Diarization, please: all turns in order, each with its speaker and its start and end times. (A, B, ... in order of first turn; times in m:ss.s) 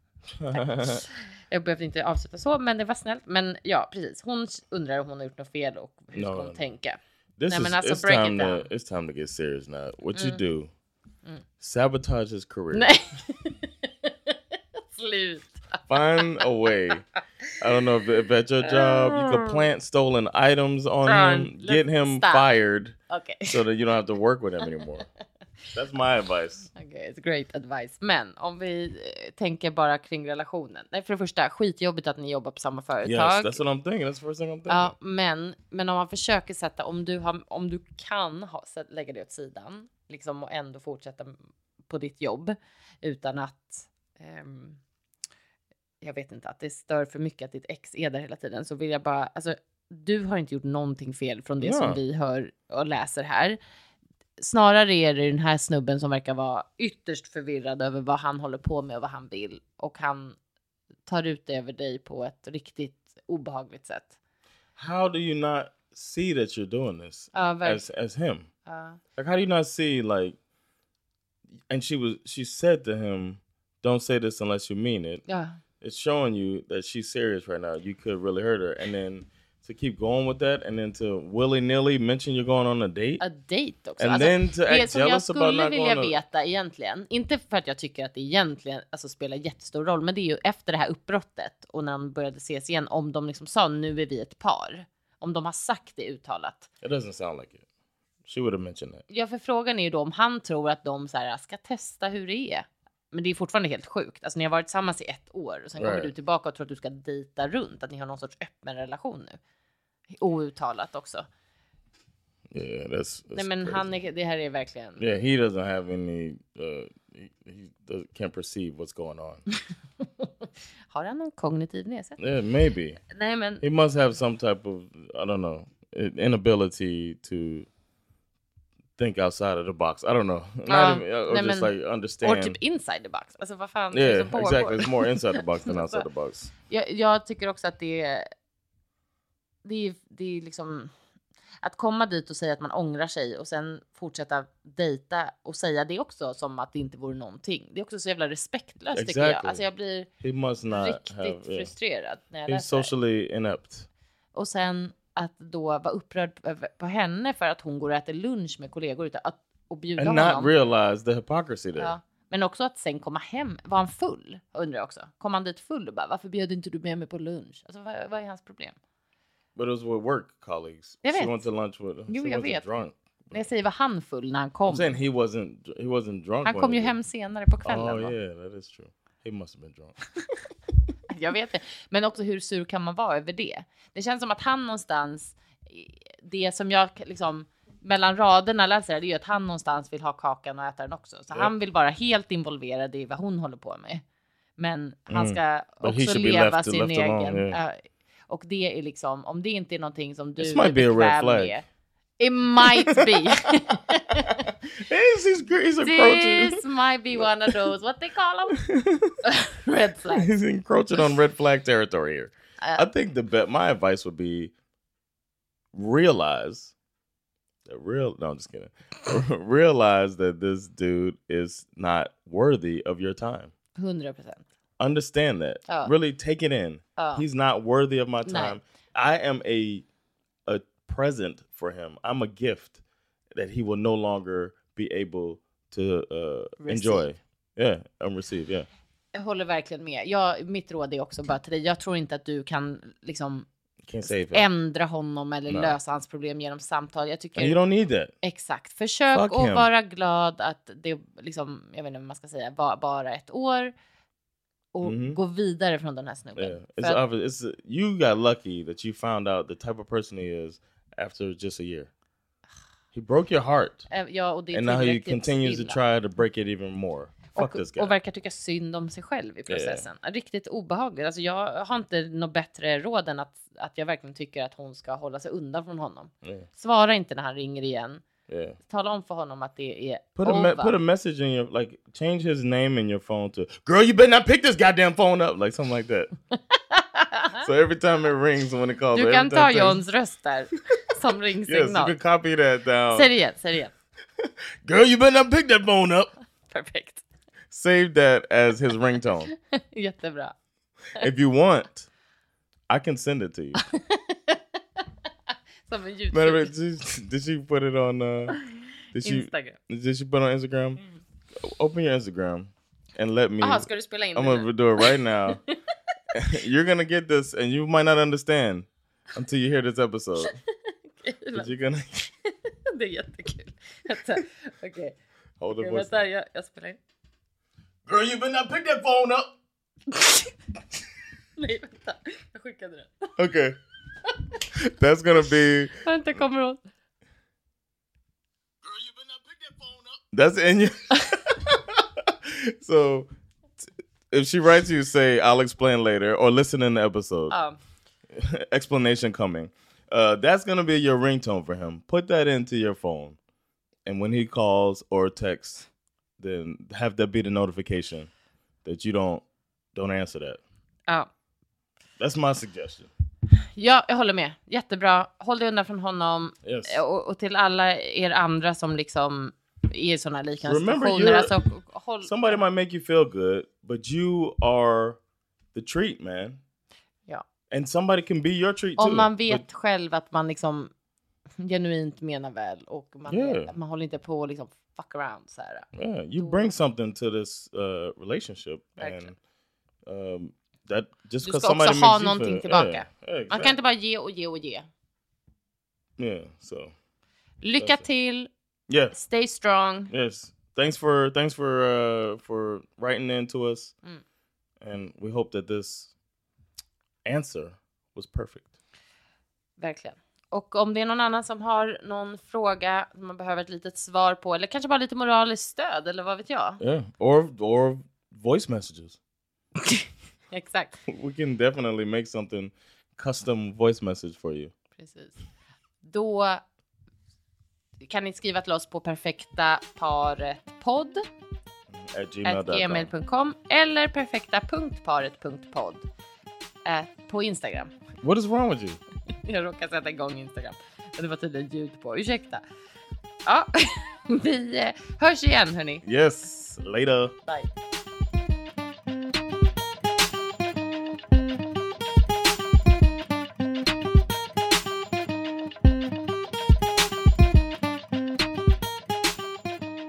0:00.3-0:01.0 A
0:00.5-0:08.7 B
0:06.1-0:06.6 A
0:07.4-0:10.7 A
0:10.1-0:10.4 B
0:11.6-0:12.9 A
0:12.7-0:16.3 B
0:15.9-0:17.0 A
0:17.6-0:23.0 A
0:18.6-0:19.6 B
0:21.0-0:22.6 B
0:23.1-0:23.6 B
0:23.5-0:25.1 A
0:25.7-0:26.7 A
0:26.8-0:33.6 B
0:33.0-0:34.9 A
0:34.7-0:41.4 B
0:41.9-0:44.8 B
0:46.0-0:53.6 B
0:51.6-0:52.0 A
0:54.4-1:00.4 B
1:01.1-1:04.1 B
1:04.8-1:08.5 A
1:07.3-1:07.9 B
1:08.6-1:09.0 B
1:09.2-1:10.4 A
1:11.7-1:15.2 A
1:15.3-1:15.6 B
1:15.8-1:23.2 A
1:23.2-1:36.7 B
1:24.0-1:26.2 A
1:36.8-1:37.6 A
1:38.2-1:39.0 A
1:39.1-1:49.4 B
1:45.7-1:46.1 A
1:50.1-1:51.2 B
1:52.5-1:53.9 A
1:53.3-1:55.0 B
1:55.0-1:59.4 A
2:00.9-2:02.2 B
2:02.2-2:03.0 A
2:03.1-2:03.6 B
2:03.6-2:07.7 A
2:09.0-2:12.6 A
2:10.7-2:16.0 B
2:13.9-2:16.5 A
2:16.7-2:18.3 B
2:19.6-2:20.9 B
2:21.6-2:30.1 B
2:28.9-2:29.6 A
2:30.2-2:31.7 A
2:30.7-2:32.9 B
2:32.5-2:33.9 A
2:34.3-2:40.5 B
2:40.0-2:41.9 A
2:41.8-2:48.8 B
2:49.5-2:53.4 A
2:51.0-2:51.5 B
2:52.1-2:52.7 B
2:53.3-2:55.0 B
2:54.6-2:56.9 A
2:56.4-2:58.2 B
2:57.6-3:00.0 A
3:01.1-3:14.0 B
3:14.6-3:21.6 B
3:15.1-3:17.6 A
3:20.4-3:21.6 A
3:22.2-3:24.5 B
3:22.6-3:23.3 A
3:24.6-3:26.6 A
3:25.8-3:28.6 B
3:28.6-3:29.1 A
3:29.2-3:30.3 B
3:30.1-3:34.5 A
3:32.6-3:32.9 B
3:35.7-3:36.7 A
3:37.6-3:43.5 A
3:43.8-3:44.4 B
3:44.8-3:49.8 A
3:47.0-3:47.2 B
3:48.2-3:48.6 B
3:50.4-3:52.8 A
3:53.3-3:58.7 A
3:56.6-3:57.1 B
3:59.1-4:03.4 B
4:03.8-4:04.5 A
4:04.3-4:07.6 B
4:05.5-4:05.8 A
4:07.4-4:08.1 A
4:08.2-4:13.7 B
4:09.1-4:09.7 A
4:14.7-4:17.0 B
4:14.8-4:15.2 A
4:16.4-4:21.9 A
4:22.9-4:23.9 A
4:23.9-4:25.8 B
4:24.5-4:27.9 A
4:27.3-4:38.0 B
4:29.5-4:29.9 A
4:38.3-4:38.6 A
4:38.6-4:40.8 B
4:40.2-4:46.1 A
4:46.5-4:47.4 B
4:47.3-4:49.8 A
4:48.9-4:51.9 B
4:51.4-4:53.1 A
4:52.9-4:53.7 B
4:54.2-4:56.1 A
4:56.5-4:57.0 B
4:57.5-4:59.3 A
4:59.3-5:00.3 B
5:01.0-5:01.9 A
5:02.7-5:03.6 A
5:03.6-5:04.8 B
5:05.7-5:06.5 B
5:06.1-5:08.4 A
5:08.9-5:10.8 A
5:09.0-5:09.6 B
5:11.4-5:15.4 A
5:13.4-5:15.5 B
5:16.1-5:20.3 A
5:21.0-5:21.5 B
5:21.3-5:22.0 A
5:22.2-5:25.0 B
5:25.4-5:26.0 A
5:25.5-5:26.8 B
5:27.8-5:29.3 A
5:29.9-5:30.3 B
5:31.4-5:33.1 B
5:33.2-5:33.5 A
5:34.6-5:35.8 A
5:35.8-5:36.6 B
5:38.6-5:43.1 A
5:44.1-5:47.4 A
5:47.3-5:47.6 B
5:48.1-5:53.2 A
5:53.8-5:55.7 A
5:56.2-5:58.1 A
5:58.6-6:00.4 A
6:02.0-6:02.9 A
6:03.3-6:12.4 B
6:06.4-6:06.8 A
6:10.4-6:11.3 A
6:12.0-6:15.0 A
6:15.5-6:16.4 A
6:17.5-6:19.4 A
6:18.8-6:20.7 B
6:21.4-6:26.5 B
6:23.1-6:23.5 A
6:25.7-6:29.1 A
6:28.8-6:29.1 B
6:29.8-6:33.5 A
6:31.2-6:34.6 B
6:36.0-6:36.7 A
6:37.4-6:38.3 B
6:37.6-6:37.8 A
6:38.7-6:39.0 A
6:38.9-6:39.9 B
6:39.9-6:43.7 A
6:44.6-6:45.9 A
6:47.0-6:48.4 A
6:49.6-6:56.6 B
6:56.6-6:59.0 A
6:59.6-7:00.8 B
7:00.9-7:04.5 A
7:04.8-7:05.2 B
7:05.8-7:06.4 B
7:07.8-7:11.0 B
7:11.7-7:12.9 A
7:12.2-7:15.8 B
7:16.6-7:17.7 B
7:18.0-7:18.8 A
7:19.2-7:22.4 B
7:23.2-7:25.8 B
7:25.8-7:27.1 A